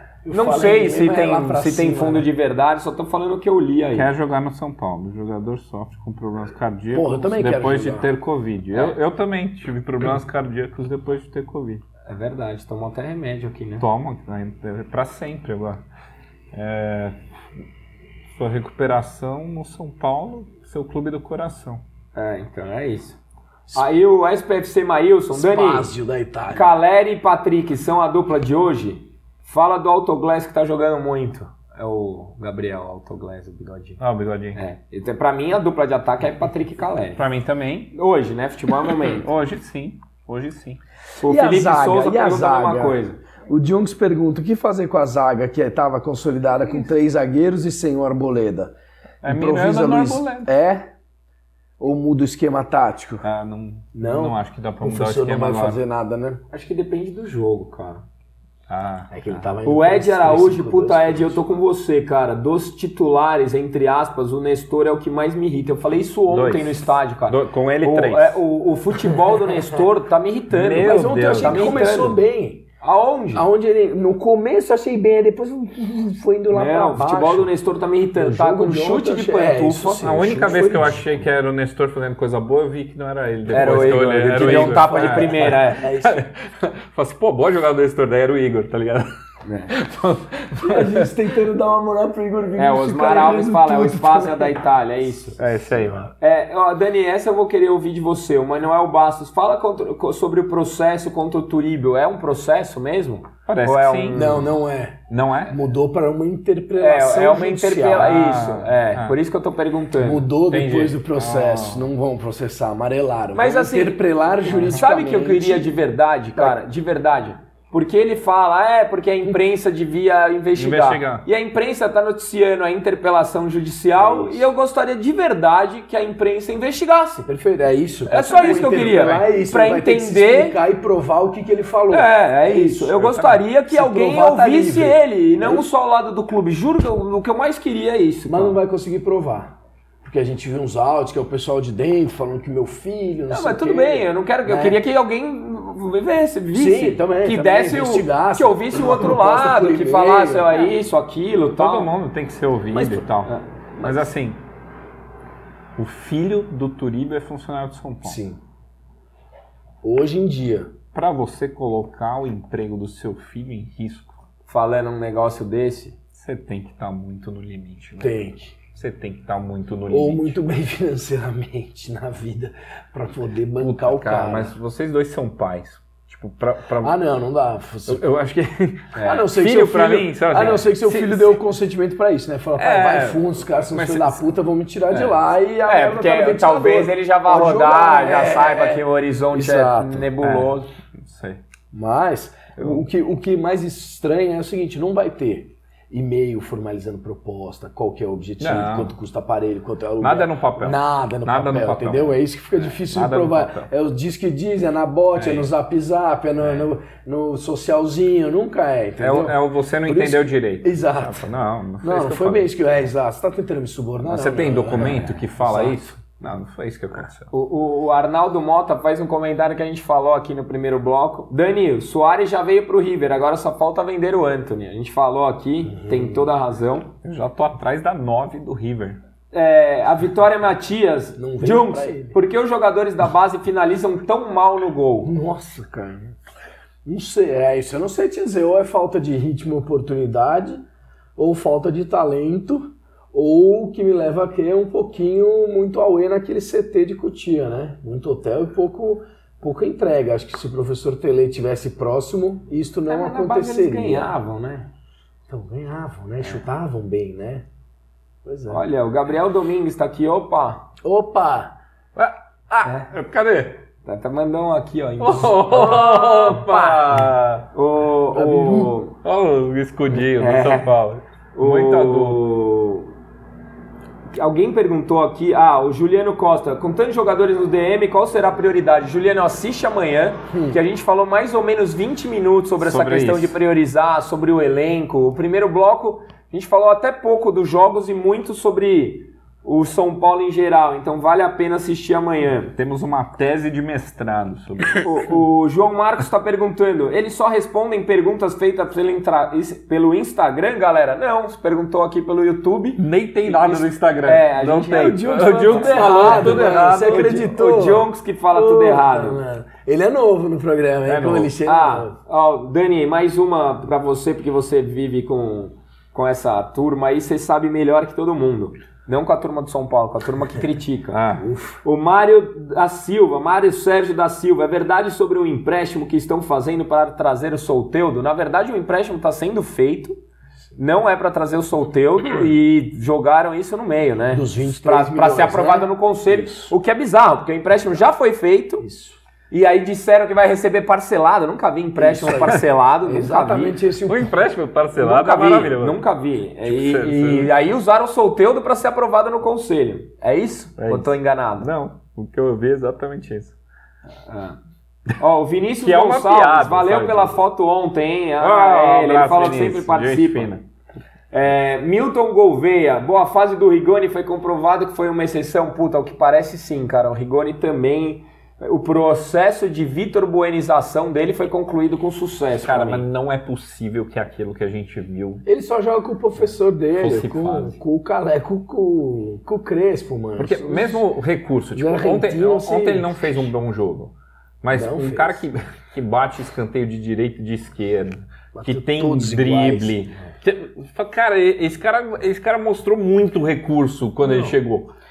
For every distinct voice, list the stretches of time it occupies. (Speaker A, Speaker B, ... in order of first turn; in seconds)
Speaker A: 0.2-2.3, 6.9-8.1, 25.3-26.7, 41.2-50.9, 51.8-53.2, 53.9-56.4, 59.1-61.4, 70.8-72.6, 73.3-77.5, 78.1-81.0, 83.6-86.2, 90.6-94.6, 104.1-108.1, 110.0-115.7, 124.0-124.4, 127.2-133.1, 133.7-135.6, 138.3-144.8, 146.5-150.7, 158.0-158.4, 159.8-160.7, 168.0-168.5, 169.9-174.5, 176.8-178.0, 179.0-190.1, 191.7-211.3, 211.8-215.8, 225.8-226.3, 231.2-232.2, 235.0-236.2, 236.8-240.6, 241.2-254.1, 255.3-257.4, 258.2-258.6, 260.8-261.6, 268.1-268.7, 280.3-280.6, 304.6-311.9, 321.2-321.6, 334.1-335.7, 338.6-339.0, 341.8-344.1, 375.2-380.8, 381.5-383.3, 384.5-385.3, 388.3-389.8, 394.0-394.3
Speaker B: 0.3-4.1, 12.1-13.8, 22.1-23.2, 23.7-25.9, 26.5-34.0, 34.5-37.2, 37.9-39.3, 41.1-43.2, 56.5-58.0, 59.6-72.2, 72.8-73.4, 76.5-80.1, 83.5-85.9, 89.4-89.7, 92.6-95.4, 96.2-104.5, 106.8-110.3, 113.3-127.3, 128.1-130.6, 131.9-138.6, 143.3-151.9, 153.1-154.0, 164.5-165.9, 178.9-179.2, 185.6-190.7, 217.3-226.9, 229.3-235.1, 252.9-254.7, 258.5-260.7, 262.6-262.9, 263.8-267.0, 267.5-268.9, 269.9-270.7, 271.3-272.9, 274.1-292.5, 294.8-309.2, 311.4-321.0, 321.6-330.0, 330.6-338.6, 339.3-343.6, 344.8-351.5, 354.0-354.4, 355.0-360.3, 361.1-372.8
Speaker C: 3.9-11.8, 13.8-15.8, 16.5-17.2, 18.3-21.8, 34.0-34.6, 37.1-37.9, 39.0-40.8, 49.2-50.5, 53.2-55.8, 58.7-59.5, 66.3-68.4, 70.5-71.8, 80.0-89.1, 89.7-91.1, 95.4-96.1, 103.5-104.4, 105.1-105.6, 107.9-109.2, 110.5-111.9, 114.5-114.8, 120.5-121.2, 133.0-133.4, 151.6-154.4, 155.8-158.2, 160.9-164.2, 166.1-170.4, 173.6-176.9, 177.9-181.4, 182.6-184.3, 190.2-191.4, 192.6-192.8, 198.4-198.9, 200.0-203.7, 205.2-205.5, 209.0-212.5, 214.0-217.3, 227.0-229.0, 261.9-263.6, 265.0-267.5, 269.0-272.3, 282.6-283.4, 292.5-295.1, 302.8-307.2, 310.9-311.3, 320.9-321.2, 336.1-336.5, 343.8-345.8, 346.4-347.3, 350.6-353.4, 355.6-357.2, 358.2-360.4, 372.4-375.2, 376.8-377.6, 380.2-394.7